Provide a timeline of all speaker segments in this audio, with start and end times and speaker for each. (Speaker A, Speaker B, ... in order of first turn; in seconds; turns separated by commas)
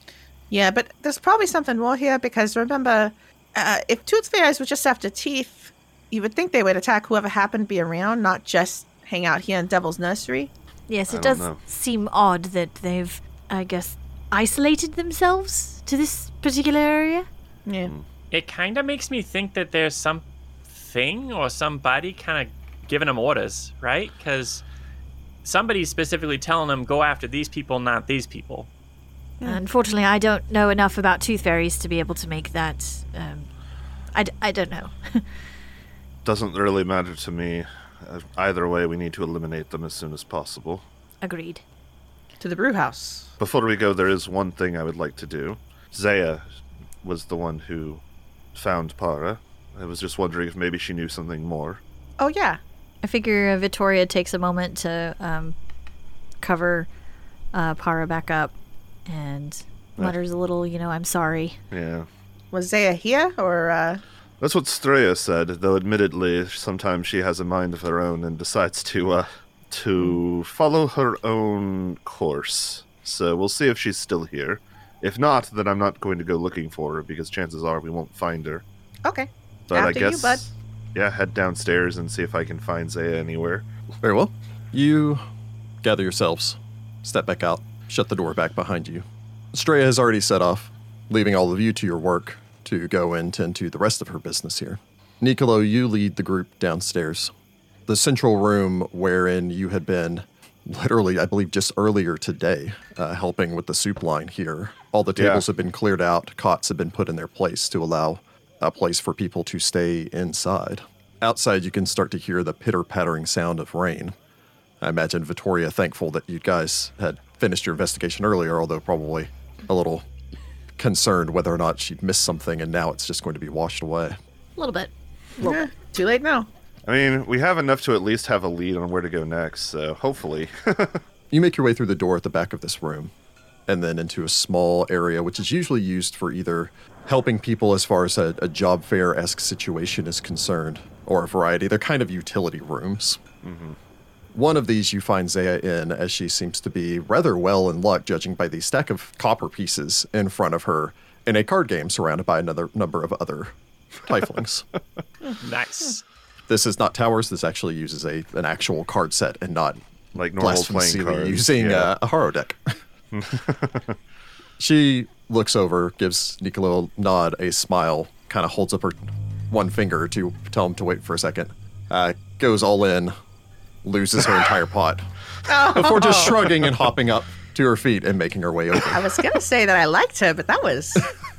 Speaker A: 0.5-10.5, Speaker B: 10.9-17.3, Speaker C: 11.1-11.6, Speaker A: 17.6-17.9, Speaker D: 18.3-24.6, Speaker D: 25.4-28.7, Speaker B: 29.4-33.5, Speaker B: 34.1-35.2, Speaker C: 36.2-40.8, Speaker B: 41.2-41.6, Speaker A: 42.4-43.3, Speaker C: 43.4-46.4, Speaker C: 47.0-48.0, Speaker C: 48.5-51.8, Speaker A: 52.2-52.6, Speaker B: 53.0-55.5, Speaker B: 56.4-56.9, Speaker B: 57.5-58.5, Speaker B: 59.1-61.6, Speaker C: 61.7-62.1, Speaker A: 62.5-64.0, Speaker C: 64.4-78.6, Speaker A: 79.0-80.4, Speaker C: 79.7-83.7, Speaker E: 84.0-85.2, Speaker E: 85.8-97.3, Speaker E: 97.9-114.1, Speaker C: 105.2-105.4, Speaker E: 114.8-120.1, Speaker E: 120.8-124.2, Speaker B: 124.6-125.7, Speaker A: 125.4-126.5, Speaker C: 126.8-131.0, Speaker E: 131.3-133.1, Speaker E: 133.7-143.2, Speaker C: 143.4-143.8, Speaker E: 144.3-154.7, Speaker D: 155.4-156.0, Speaker E: 156.5-159.8, Speaker C: 160.1-161.9, Speaker E: 160.3-162.8, Speaker C: 163.1-163.9, Speaker E: 164.6-173.1, Speaker E: 173.8-175.1, Speaker A: 175.5-176.5, Speaker E: 175.6-179.1, Speaker A: 178.8-181.1